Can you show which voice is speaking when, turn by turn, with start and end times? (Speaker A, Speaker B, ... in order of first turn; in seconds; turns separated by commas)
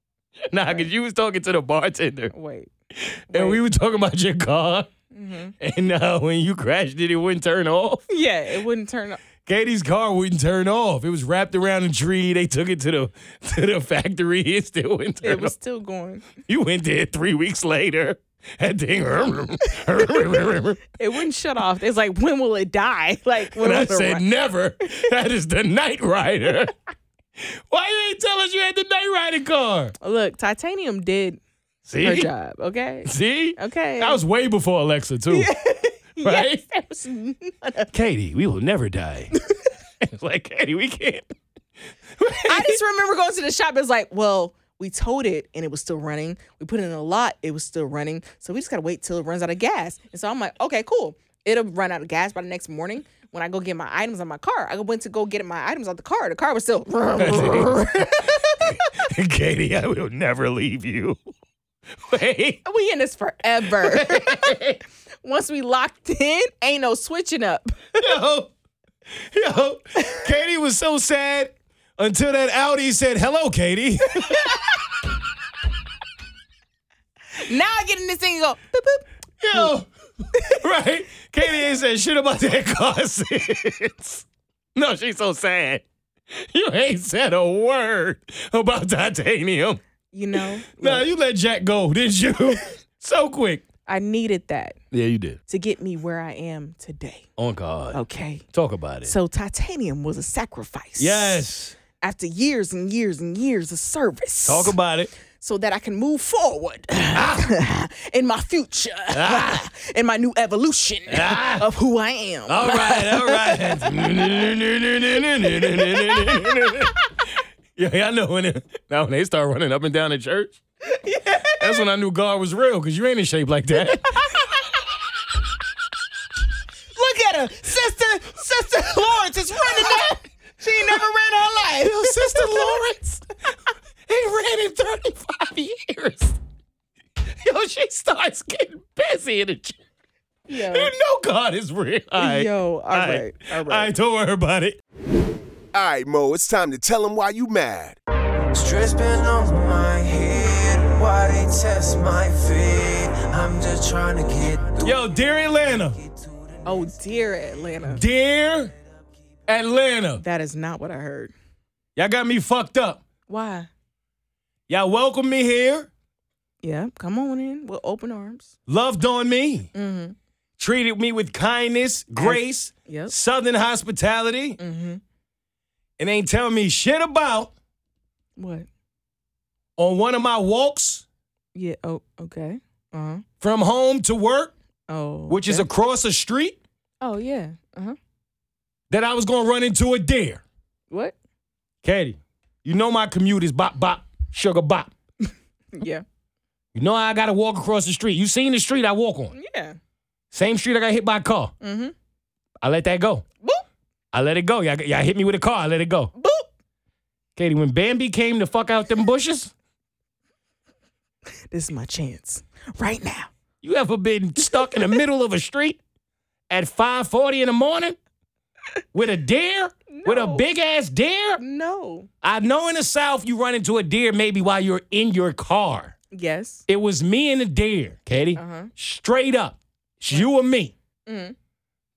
Speaker A: 0.5-2.3, Speaker B: 2.3-2.7, Speaker A: 3.0-4.9, Speaker B: 3.3-3.6, Speaker B: 5.1-5.5, Speaker A: 5.6-8.0, Speaker B: 8.1-9.2, Speaker A: 9.4-15.5, Speaker B: 15.2-16.3, Speaker A: 16.4-20.8, Speaker B: 20.0-20.2, Speaker B: 20.9-24.2, Speaker A: 23.5-26.7, Speaker A: 27.4-29.9, Speaker B: 30.0-31.4, Speaker A: 31.9-32.3, Speaker B: 32.0-34.2, Speaker A: 33.0-35.5, Speaker B: 35.3-37.9, Speaker A: 36.2-36.6, Speaker A: 37.9-39.3, Speaker A: 40.0-41.3, Speaker A: 42.2-42.8, Speaker B: 42.4-58.9, Speaker A: 57.2-61.2, Speaker A: 62.0-62.6, Speaker B: 62.6-64.6, Speaker A: 63.7-64.8, Speaker B: 65.2-68.1, Speaker A: 68.0-68.5, Speaker A: 69.1-74.5, Speaker B: 74.2-74.7, Speaker B: 77.4-79.7, Speaker A: 79.4-79.9, Speaker B: 80.3-80.6, Speaker A: 80.4-89.8, Speaker B: 90.1-91.1, Speaker A: 90.3-93.6, Speaker B: 93.9-94.8, Speaker A: 94.9-95.4, Speaker B: 95.5-97.2, Speaker A: 97.4-98.0, Speaker B: 97.9-98.4, Speaker A: 98.5-99.1, Speaker B: 99.0-101.4, Speaker A: 101.0-101.8, Speaker B: 102.0-104.8, Speaker A: 104.5-105.1, Speaker B: 105.3-114.5, Speaker A: 107.1-107.5, Speaker A: 109.1-109.7, Speaker A: 111.1-111.7, Speaker A: 112.5-116.9, Speaker B: 115.4-116.9, Speaker A: 117.8-120.6, Speaker B: 120.8-121.8, Speaker A: 121.6-124.3, Speaker B: 124.0-124.5, Speaker B: 126.9-132.8, Speaker A: 131.8-133.2, Speaker A: 134.1-136.4, Speaker A: 137.4-139.8, Speaker B: 140.5-140.9, Speaker A: 140.5-144.8, Speaker B: 142.2-143.9, Speaker C: 145.7-148.0, Speaker D: 148.5-154.9, Speaker A: 154.8-156.0, Speaker B: 156.6-158.0, Speaker A: 157.8-158.7, Speaker A: 159.5-160.2, Speaker B: 160.2-161.3, Speaker A: 161.9-163.0, Speaker B: 163.3-163.7, Speaker A: 164.7-165.9, Speaker B: 166.6-168.5, Speaker A: 168.7-169.7, Speaker B: 169.7-170.1, Speaker A: 170.6-174.6, Speaker B: 172.2-173.1, Speaker B: 174.6-175.0, Speaker A: 176.0-177.5, Speaker B: 178.4-178.7, Speaker A: 179.8-181.0, Speaker B: 181.5-183.2, Speaker A: 183.4-184.5, Speaker B: 184.9-185.7, Speaker A: 185.3-186.6, Speaker B: 187.0-187.9, Speaker A: 188.9-190.4, Speaker B: 190.9-191.1, Speaker A: 191.8-194.9, Speaker B: 195.7-196.0, Speaker A: 196.7-199.3, Speaker B: 199.3-199.8, Speaker A: 200.3-201.5, Speaker B: 201.6-201.9, Speaker A: 202.6-203.2, Speaker A: 204.1-206.1, Speaker B: 206.1-206.5, Speaker A: 207.3-209.5, Speaker B: 211.5-213.3, Speaker A: 213.6-215.8, Speaker B: 214.5-215.0, Speaker A: 216.5-218.0, Speaker A: 218.9-221.4, Speaker B: 219.9-220.4, Speaker B: 221.4-222.1, Speaker A: 222.2-225.9, Speaker B: 226.1-226.7, Speaker A: 226.7-230.7, Speaker B: 228.3-228.7, Speaker B: 231.1-231.3